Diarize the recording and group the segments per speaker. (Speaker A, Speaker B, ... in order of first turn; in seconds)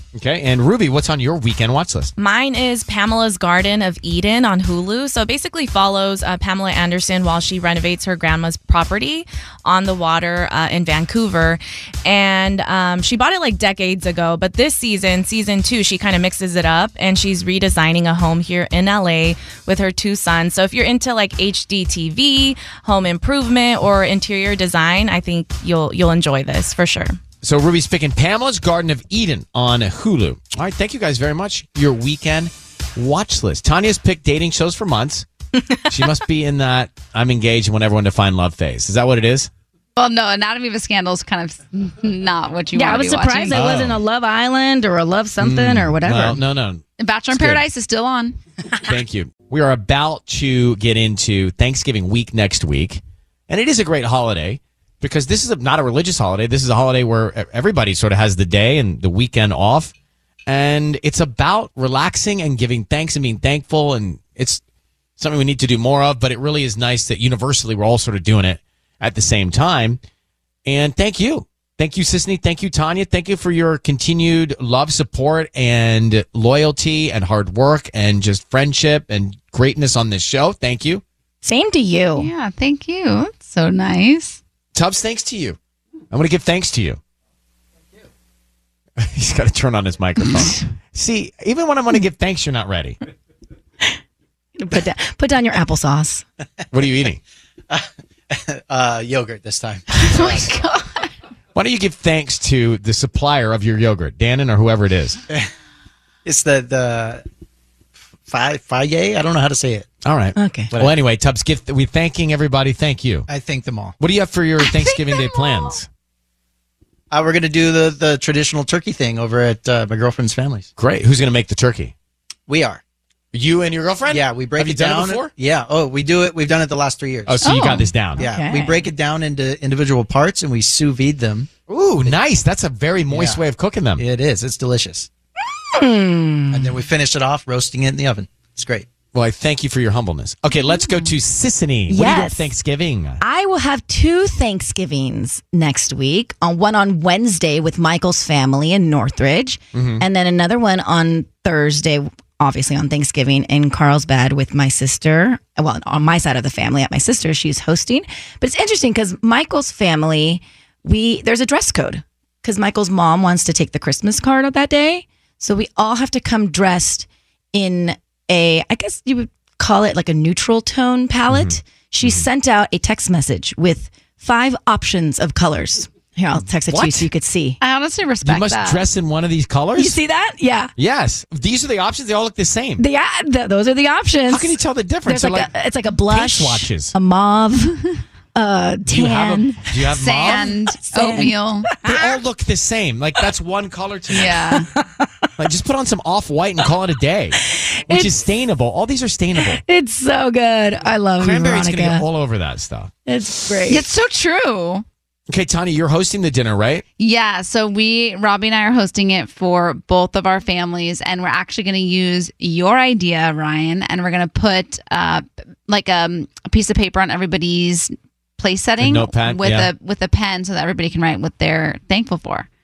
Speaker A: 0.1-2.1, 27.4-35.3, 35.9-39.5, 43.5-44.0, 45.4-47.6, 48.9-59.9, 60.5-64.6, 65.2-70.0, 70.7-81.0, 84.7-85.6, 86.1-87.0, 89.0-93.0, 96.7-97.2, 101.5-105.2, 110.0-113.3, 114.0-115.9, 120.8-121.9, 123.3-125.3, 127.3-128.2, 131.7-134.0, 139.1-143.2, 149.7-150.0, 171.3-172.2, 176.3-177.1, 178.2-180.0, 180.8-182.8, 184.3-185.5, 186.1-186.9, 188.9-190.6, 191.8-194.4, 195.4-199.6, 201.2-202.9, 205.3-206.8, 218.8-219.7
Speaker B: 2.2-27.2
Speaker C: 40.0-43.6, 47.0-48.4, 82.2-84.4, 100.0-100.8, 177.6-178.8, 189.9-191.7, 194.1-194.7, 203.7-204.8, 207.0-222.5
Speaker D: 42.7-46.4, 81.4-82.3, 94.6-96.2, 100.2-100.5, 110.4-110.7, 127.4-128.8, 135.7-136.7, 141.9-142.6, 143.2-177.6, 179.8-180.7, 182.8-189.8, 190.7-192.1, 194.5-194.8, 197.6-198.1, 199.4-202.1, 203.1-203.9
Speaker E: 97.7-100.4, 106.2-107.2, 108.3-109.9, 113.3-114.0, 117.1-120.7, 122.5-122.8, 124.1-127.6, 128.2-131.5, 133.1-133.4, 134.0-135.1, 136.5-138.9